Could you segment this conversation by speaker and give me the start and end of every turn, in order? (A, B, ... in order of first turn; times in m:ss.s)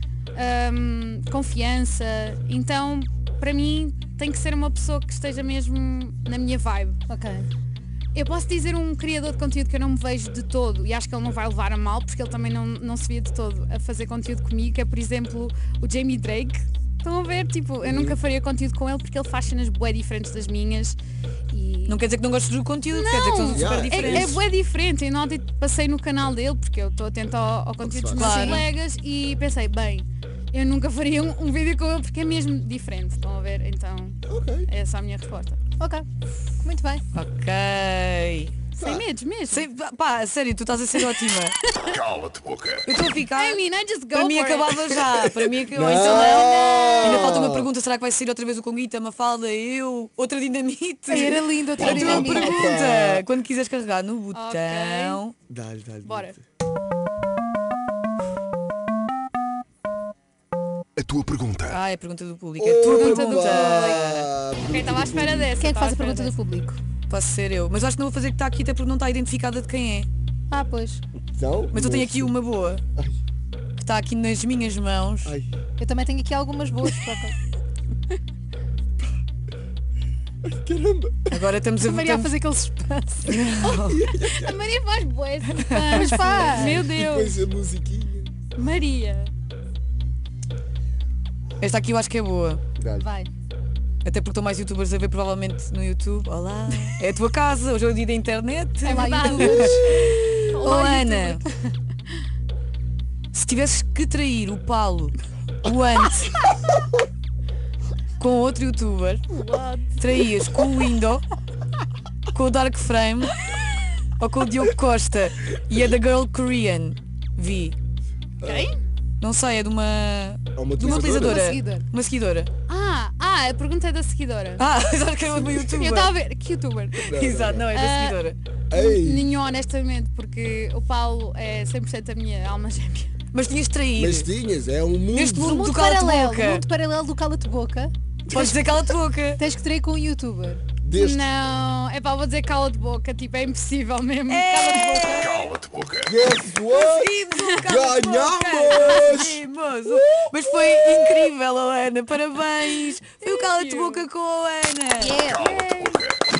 0:00.3-0:07.0 A
0:07.1-0:07.5 B
0:08.1-0:21.0 A
0:17.8-0:18.2 C
0:21.5-0:22.0 A
0:21.9-0:24.4 D
0:22.9-0:35.6 A
0:23.5-0:24.4 C
0:27.8-0:28.2 C
0:28.2-0:28.6 B
0:28.2-0:28.6 D
0:34.3-0:34.7 C
0:35.8-0:36.0 B
0:36.6-0:37.0 B
0:37.1-0:38.5 D
0:38.8-0:39.0 C
0:38.8-0:39.7 A
0:39.5-0:41.6 D
0:40.9-0:42.0 A
0:42.0-0:42.8 E
0:42.8-0:43.6 D
0:43.3-0:45.0 A
0:44.1-0:55.3 D
0:45.2-0:47.7 C
0:46.0-0:47.3 A
0:51.1-0:52.6 B
0:51.8-0:53.2 C
0:54.3-0:55.2 A
0:55.5-0:56.4 C
0:56.0-0:56.4 A
1:01.0-1:01.8 E
1:01.7-1:04.3 D
1:02.6-1:05.5 C
1:02.8-1:04.1 A
1:04.7-1:06.4 A
1:05.5-1:06.8 B
1:07.1-1:10.1 D
1:10.5-1:11.0 B
1:11.3-1:12.4 C
1:11.7-1:12.8 D
1:13.8-1:15.4 D
1:15.8-1:17.3 B
1:20.4-1:21.4 C
1:21.3-1:22.3 D
1:21.8-1:23.4 B
1:23.3-1:24.0 D
1:23.6-1:24.6 C
1:24.1-1:27.4 A
1:25.7-1:26.0 D
1:25.9-1:26.8 B
1:26.6-1:28.3 C
1:28.5-1:29.3 A
1:31.6-1:32.6 D
1:32.8-1:33.1 C
1:33.0-1:33.3 B
1:34.0-1:39.7 D
1:38.8-1:40.0 B
1:38.8-1:41.4 A
1:39.6-1:40.6 C
1:40.6-1:41.4 D
1:43.3-1:46.4 D
1:48.2-1:49.2 D
1:49.3-1:50.0 A
1:50.0-1:51.2 D
1:52.3-1:53.3 D
1:54.2-1:57.8 D
1:58.4-1:58.7 C
1:58.4-1:58.8 A
1:59.2-2:02.5 D
2:00.5-2:01.4 C
2:00.8-2:01.9 B
2:02.7-2:04.6 A
2:04.6-2:06.1 D
2:05.3-2:05.6 C
2:05.5-2:07.1 A
2:07.0-2:07.7 C
2:07.1-2:08.4 D
2:07.7-2:13.1 A
2:08.7-2:09.4 C
2:13.3-2:14.3 D
2:14.0-2:15.6 C
2:15.1-2:16.6 D
2:15.5-2:17.9 B
2:18.3-2:19.4 D
2:18.4-2:18.6 A
2:19.4-2:20.6 B
2:20.8-2:21.3 C
2:20.9-2:25.5 A
2:24.3-2:25.4 D
2:25.5-2:26.1 E
2:26.0-2:29.4 C
2:26.7-2:35.2 D
2:28.7-2:29.2 A
2:33.1-2:34.1 A
2:35.0-2:35.8 B
2:35.2-2:36.0 A
2:35.3-2:36.1 E